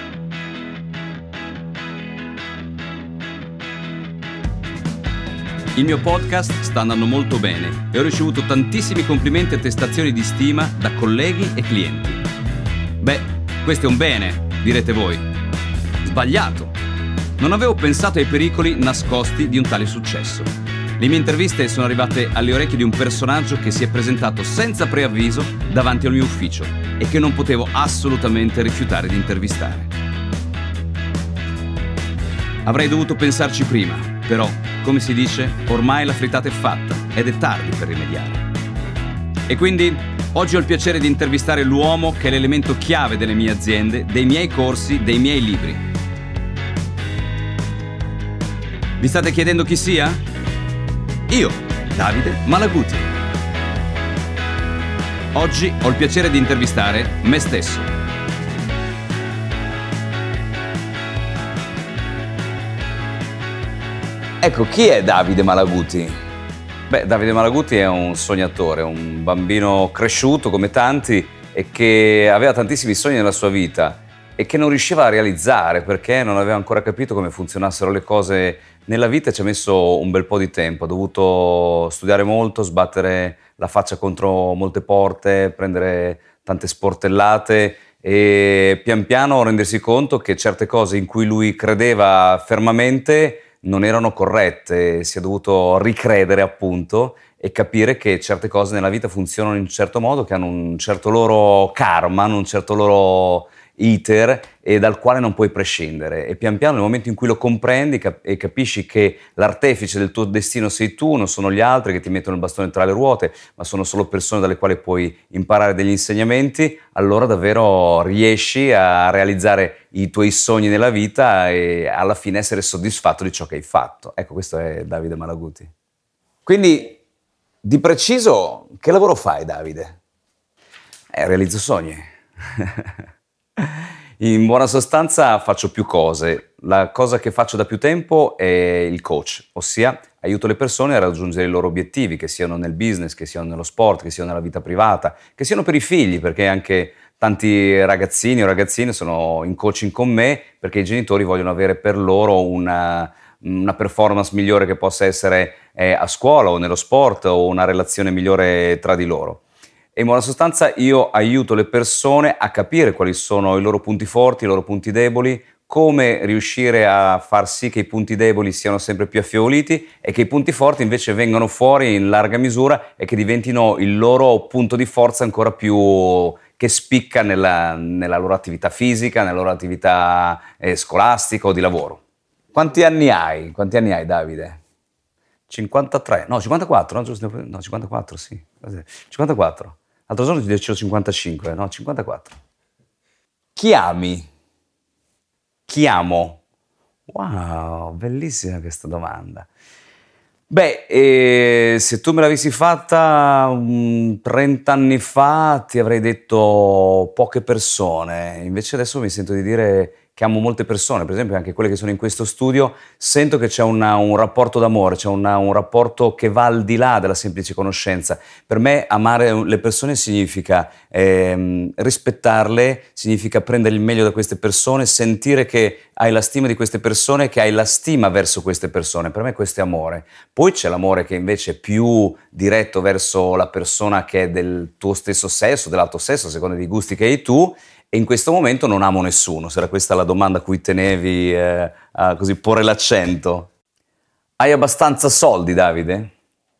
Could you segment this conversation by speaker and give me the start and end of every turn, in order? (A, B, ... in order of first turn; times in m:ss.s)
0:05.7-0:12.2 A
0:13.0-0:15.2 A
0:16.0-0:16.7 A
0:17.4-0:29.9 A
0:32.6-0:38.4 A
0:39.5-0:45.8 A
0:49.0-0:50.2 A
0:51.3-0:53.1 A
0:55.3-0:57.9 A
1:04.4-1:06.2 A
1:06.9-2:05.7 A
2:06.4-2:07.0 A
2:07.6-2:10.0 A
2:11.1-2:12.9 A
2:13.6-2:39.4 A
2:39.9-3:02.0 A
3:02.5-3:04.6 A
3:05.5-3:12.3 A
3:13.5-3:14.3 A
3:15.7-3:16.4 A
3:17.1-3:19.5 A
3:20.5-4:03.5 A
4:04.4-4:06.1 A